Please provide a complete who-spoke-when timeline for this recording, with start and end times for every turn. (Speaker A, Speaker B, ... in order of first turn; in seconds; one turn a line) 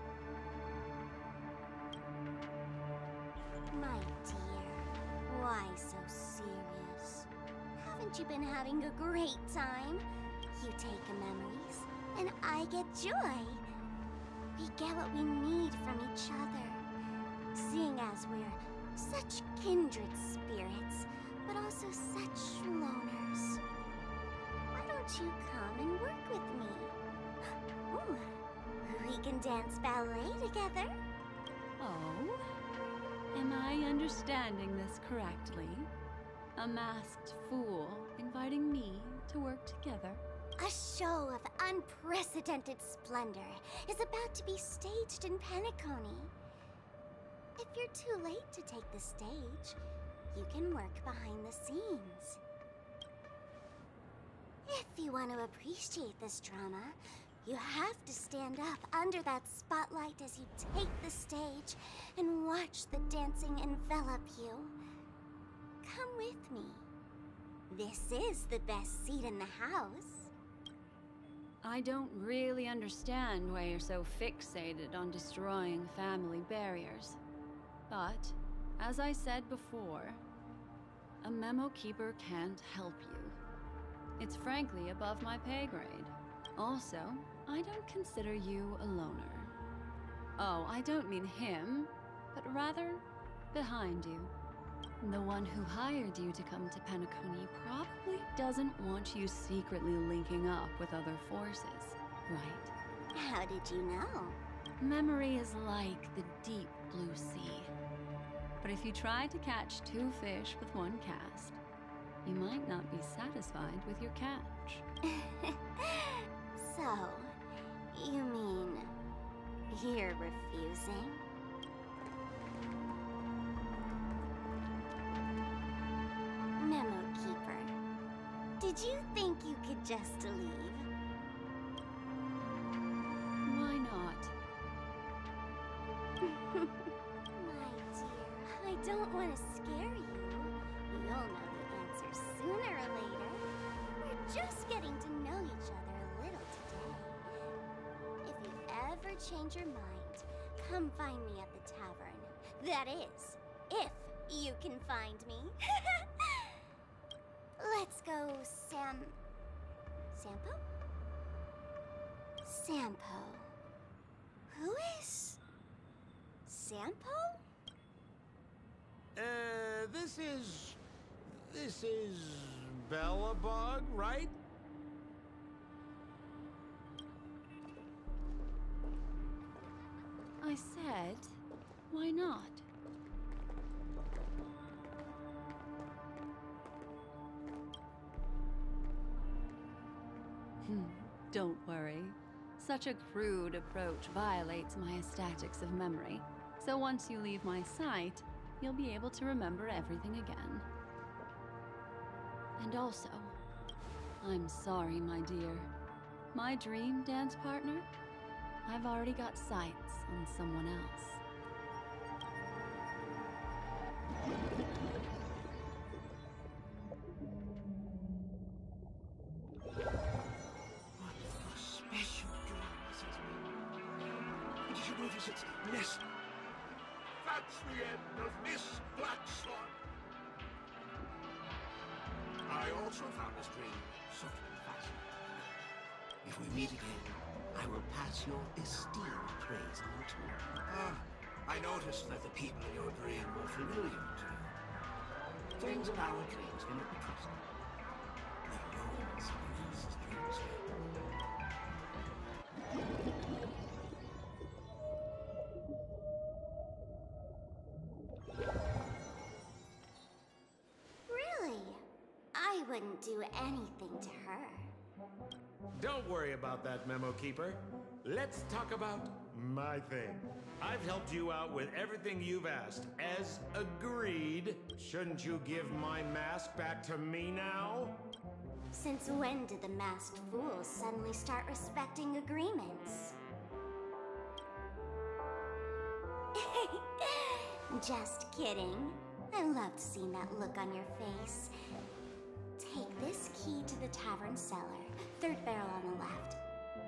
Speaker A: 3.7-13.6
Speaker A: 14.6-16.8
Speaker A: 17.5-23.6
Speaker A: 24.7-28.3
Speaker A: 28.8-31.0
Speaker B: 31.8-32.4
Speaker B: 33.3-35.9
Speaker B: 36.6-40.2
Speaker A: 40.6-46.3
Speaker A: 47.6-49.8
Speaker A: 50.3-52.4
Speaker A: 54.6-64.8
Speaker A: 65.8-66.9
Speaker A: 67.7-70.3
Speaker B: 71.6-77.2
Speaker B: 77.9-80.2
Speaker B: 81.2-83.4
Speaker B: 84.2-89.5
Speaker B: 90.4-94.3
Speaker B: 95.0-102.7
Speaker A: 103.1-104.4
Speaker B: 104.8-107.7
Speaker B: 108.6-111.6
Speaker B: 112.2-114.8
Speaker A: 115.0-117.3
Speaker A: 117.9-118.9
Speaker A: 119.7-121.2
Speaker A: 126.6-127.8
Speaker A: 128.6-130.9
Speaker B: 133.4-134.3
Speaker A: 136.2-143.4
Speaker A: 144.0-147.2
Speaker A: 148.2-156.5
Speaker A: 157.6-159.2
Speaker A: 160.1-160.6
Speaker A: 162.4-163.5
Speaker A: 164.5-165.4
Speaker A: 166.4-167.4
Speaker C: 169.2-174.3
Speaker B: 180.4-181.4
Speaker B: 181.9-182.7
Speaker B: 190.6-200.7
Speaker B: 202.6-203.3
Speaker B: 204.2-205.7
Speaker B: 206.3-207.8
Speaker B: 208.6-211.2
Speaker D: 221.0-223.4
Speaker D: 224.6-226.0
Speaker D: 227.2-229.7
Speaker D: 232.4-235.0
Speaker D: 236.2-244.5
Speaker D: 245.6-247.4
Speaker D: 248.5-250.7
Speaker A: 261.1-261.8
Speaker A: 262.3-264.7
Speaker C: 265.8-278.0
Speaker A: 278.7-283.1
Speaker A: 286.3-291.5
Speaker A: 292.6-296.4